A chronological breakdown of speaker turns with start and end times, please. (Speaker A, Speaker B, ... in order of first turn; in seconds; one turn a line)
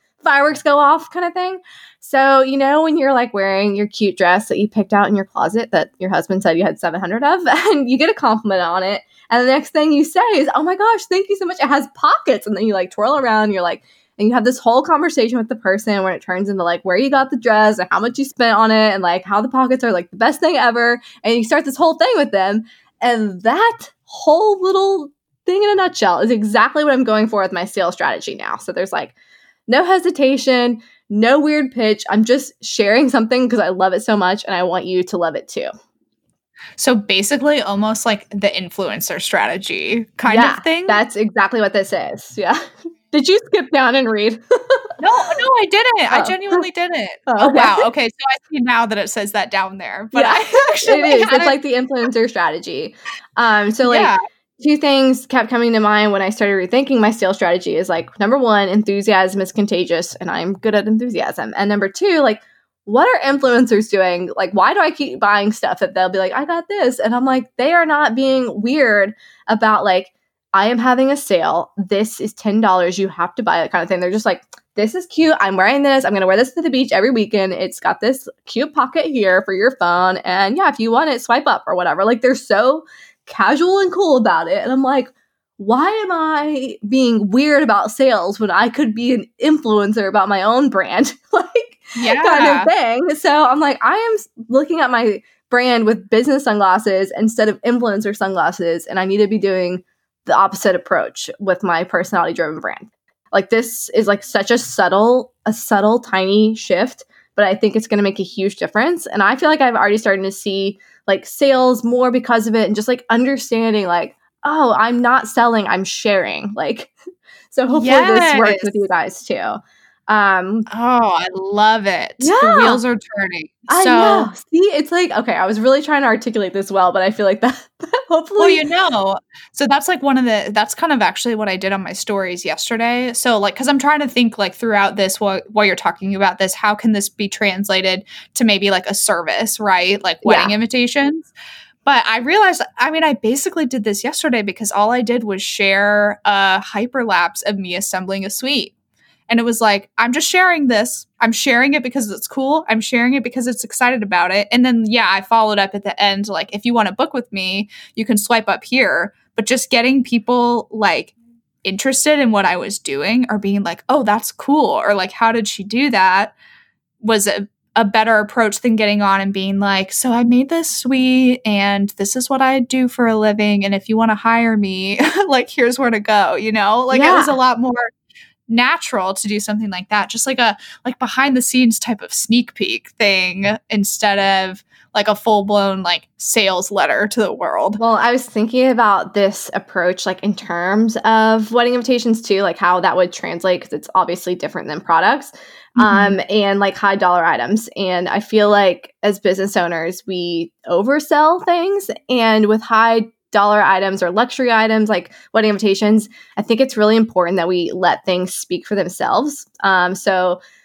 Speaker A: 0.2-29.1
Speaker A: 29.7-35.7
Speaker B: 36.8-41.0
Speaker A: 40.3-44.8
Speaker B: 45.0-51.5
Speaker A: 46.1-46.6
Speaker A: 47.3-47.8
Speaker A: 50.1-116.9
Speaker B: 53.8-54.2
Speaker B: 92.0-92.7
Speaker A: 117.5-120.7
Speaker B: 117.7-118.8
Speaker B: 120.7-124.3
Speaker A: 122.2-122.8
Speaker A: 123.7-128.6
Speaker B: 128.4-141.3
Speaker A: 140.2-140.5
Speaker B: 141.8-148.7
Speaker B: 149.3-166.3
Speaker B: 167.0-177.9
Speaker A: 176.9-177.3
Speaker B: 178.5-187.8
Speaker A: 187.8-210.4
Speaker B: 195.8-196.2